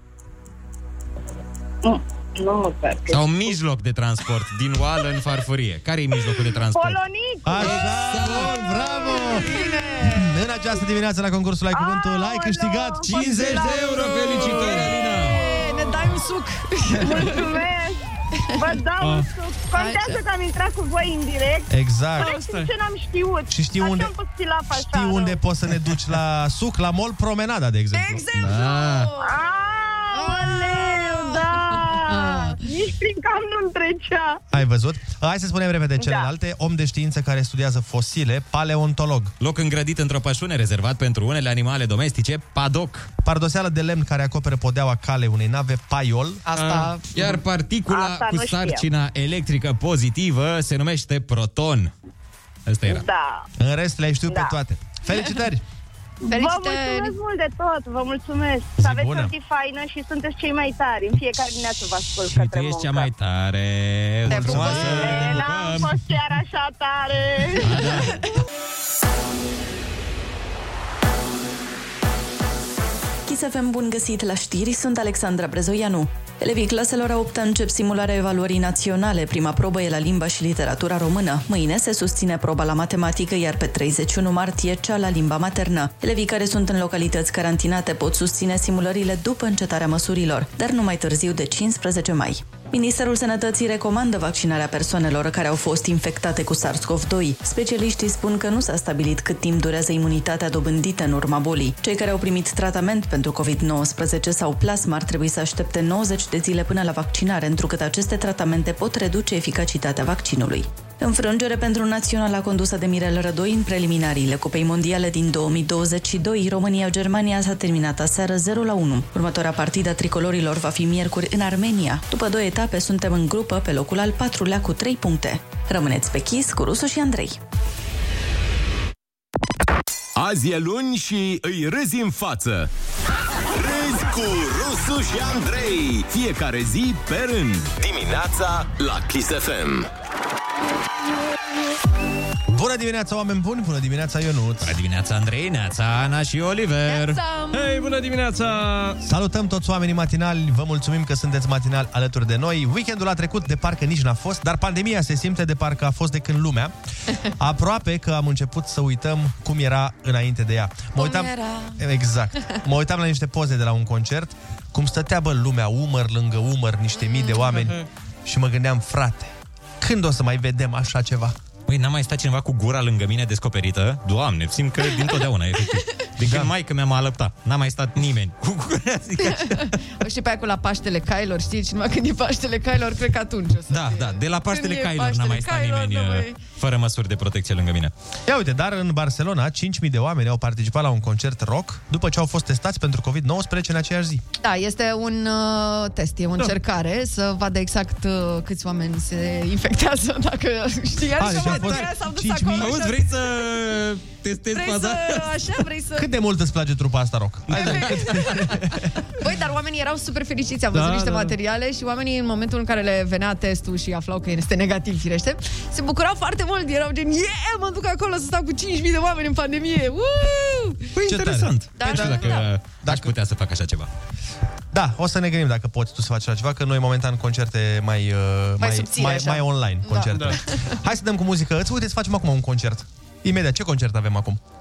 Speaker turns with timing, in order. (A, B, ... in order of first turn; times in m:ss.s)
0:01.8-0:03.5 A
0:03.1-0:07.0 B
0:06.7-0:08.0 A
0:07.4-0:13.2 C
0:08.0-0:08.6 B
0:08.9-0:10.4 D
0:11.7-0:14.4 A
0:13.0-0:15.4 B
0:14.3-0:17.4 D
0:17.0-0:18.0 A
0:18.6-0:25.4 A
0:19.0-0:19.3 E
0:19.7-0:20.2 D
0:21.7-0:22.3 C
0:22.2-0:22.7 E
0:23.5-0:24.1 C
0:24.7-0:28.2 C
0:27.9-0:29.4 D
0:28.4-0:29.1 B
0:29.2-0:34.4 A
0:30.1-0:32.6 D
0:34.5-0:39.3 C
0:36.0-0:36.3 A
0:39.4-0:43.1 B
0:43.2-0:46.4 C
0:46.5-0:47.1 D
0:46.6-0:46.9 E
0:47.1-0:51.9 B
0:47.9-0:48.8 A
0:52.7-0:53.0 B
0:52.9-0:53.5 A
0:53.6-0:55.6 C
0:54.3-0:54.6 A
0:56.2-1:03.1 A
0:56.3-0:57.1 D
0:58.8-0:59.3 C
1:02.3-1:06.0 B
1:04.3-1:05.2 D
1:04.3-1:04.9 C
1:04.9-1:07.9 A
1:07.6-1:08.3 B
1:13.3-2:07.4 F
2:10.2-2:12.7 G
2:13.5-2:19.9 G
2:22.5-2:24.8 C
2:24.6-2:27.2 B
2:26.9-2:27.6 D
2:27.5-2:29.0 E
2:29.0-2:36.7 C
2:37.4-2:51.4 C
2:41.0-2:41.8 D
2:47.0-2:47.6 D
2:47.5-2:47.8 E
2:51.7-2:59.8 B
2:56.2-2:56.5 C
2:59.2-3:06.4 D
3:03.7-3:07.9 B
3:08.3-3:14.2 C
3:14.4-3:23.1 D
3:21.2-3:22.8 C
3:22.6-3:25.4 B
3:24.5-3:26.1 D
3:26.0-3:28.3 C
3:27.5-3:28.3 D
3:27.5-3:27.8 E
3:29.2-3:40.9 D
3:30.7-3:31.3 E
3:41.0-3:43.9 B
3:41.1-3:43.1 C
3:41.8-3:42.5 D
3:44.7-3:54.4 C
3:48.6-3:50.7 D
3:50.1-3:50.4 E